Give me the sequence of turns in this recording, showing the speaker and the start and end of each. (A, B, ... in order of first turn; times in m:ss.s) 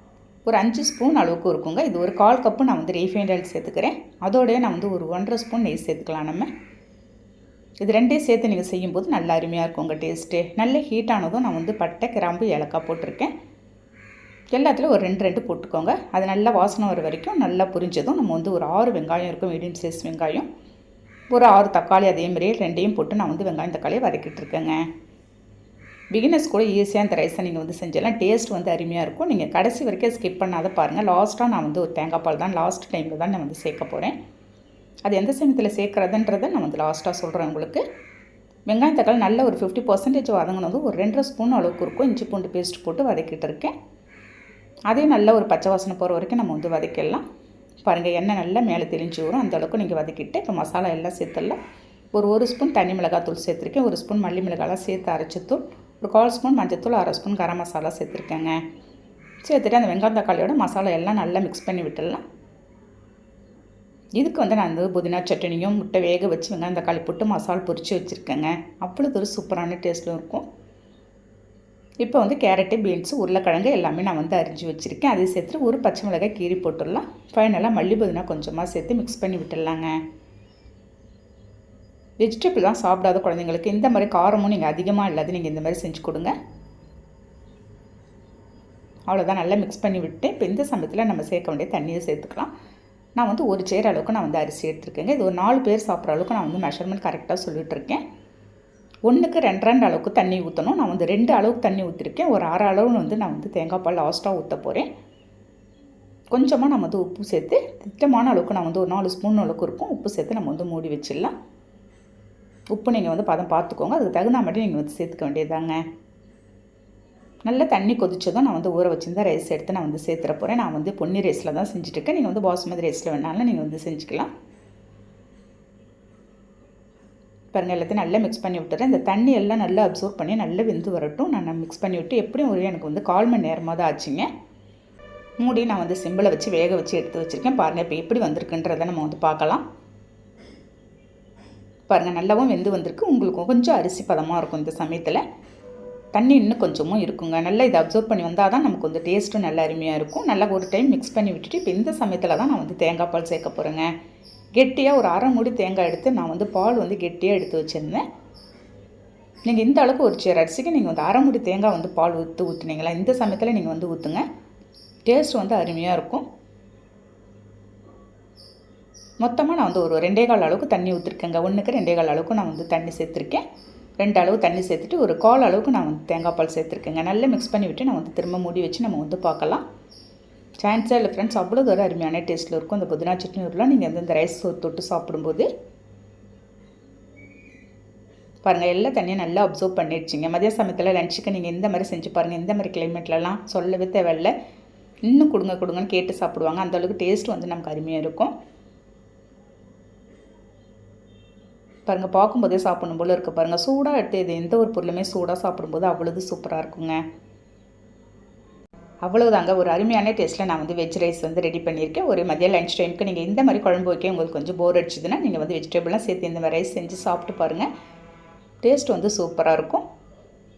0:00.5-0:06.5 A
0:07.8-0:13.3 A
0:14.5-0:20.5 A
0:21.3-0:24.8 A
0:26.1-0:34.1 A
0:35.1-0:37.8 A
0:38.7-0:43.7 A
0:44.9-0:47.2 A
0:47.8-0:51.6 A
0:52.1-0:58.6 A
0:59.4-1:02.2 A
1:04.2-1:10.4 A
1:12.0-1:19.9 A
1:22.2-1:26.3 A
1:29.1-1:32.5 A
1:33.2-1:38.0 A
1:39.1-1:44.9 A
1:46.3-1:51.3 A
1:52.7-1:55.8 A
1:57.4-2:04.3 A
2:07.5-2:14.3 A
2:15.4-2:19.6 A
2:21.9-2:25.2 A
2:26.1-2:33.9 A
2:34.6-2:38.0 A
2:39.4-2:44.2 A
2:45.0-2:46.2 A
2:49.2-2:53.4 A
2:54.0-2:59.6 A
3:00.6-3:05.5 A
3:08.4-3:14.3 A
3:15.1-3:18.3 A
3:21.9-3:27.0 A
3:29.0-3:37.7 A
3:38.6-3:39.8 A